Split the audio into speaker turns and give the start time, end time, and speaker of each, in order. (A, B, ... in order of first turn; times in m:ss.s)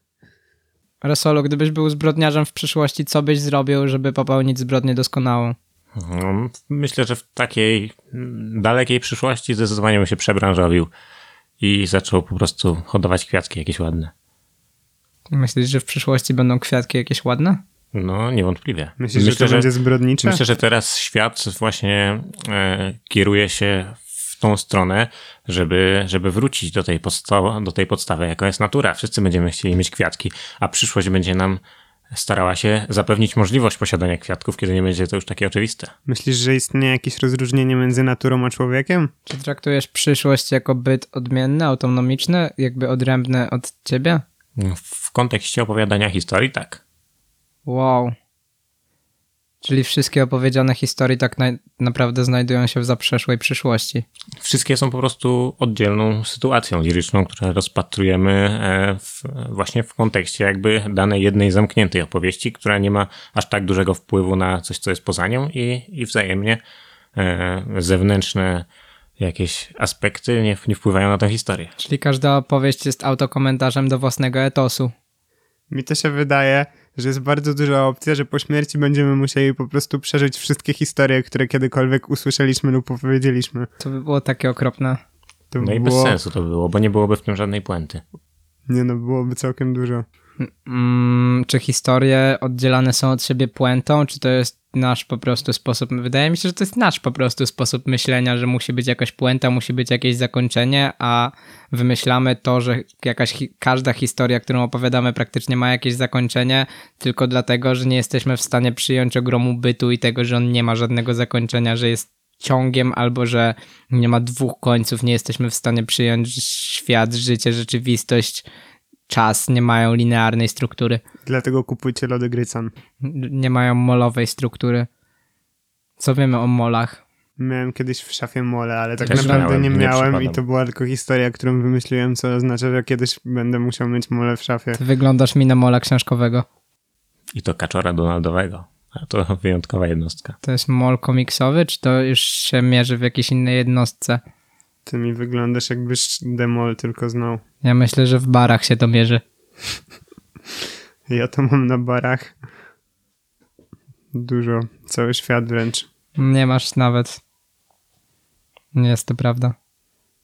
0:01.0-0:05.6 A
0:06.0-0:10.9 B
0:11.6-0:14.1 B
0:15.3-0:17.6 A
0:17.9-0:19.7 B
0:19.0-0:20.4 C
0:20.2-0:31.6 B
0:32.1-0:35.9 B
0:36.1-0:39.1 C
0:39.3-0:44.2 A
0:44.6-0:46.8 B
0:47.6-0:48.1 A
0:49.6-0:54.0 A
0:54.4-1:06.6 B
1:07.2-1:08.6 B
1:09.2-1:11.7 B
1:11.8-1:14.9 A
1:15.7-1:23.7 C
1:23.8-1:25.0 A
1:25.5-1:26.2 C
1:25.6-1:28.0 B
1:28.7-1:30.0 C
1:30.4-1:58.4 A
1:59.1-2:01.0 A
2:01.2-2:02.7 C
2:03.0-2:04.9 A
2:06.0-2:07.0 A
2:07.4-2:14.8 C
2:09.0-2:09.5 A
2:09.1-2:10.4 B
2:14.7-2:16.4 A
2:17.3-2:20.4 B
2:20.4-2:24.2 A
2:24.8-2:27.4 C
2:27.6-2:29.2 A
2:31.1-2:32.3 C
2:34.1-2:35.9 C
2:36.2-2:37.2 A
2:38.7-2:39.5 A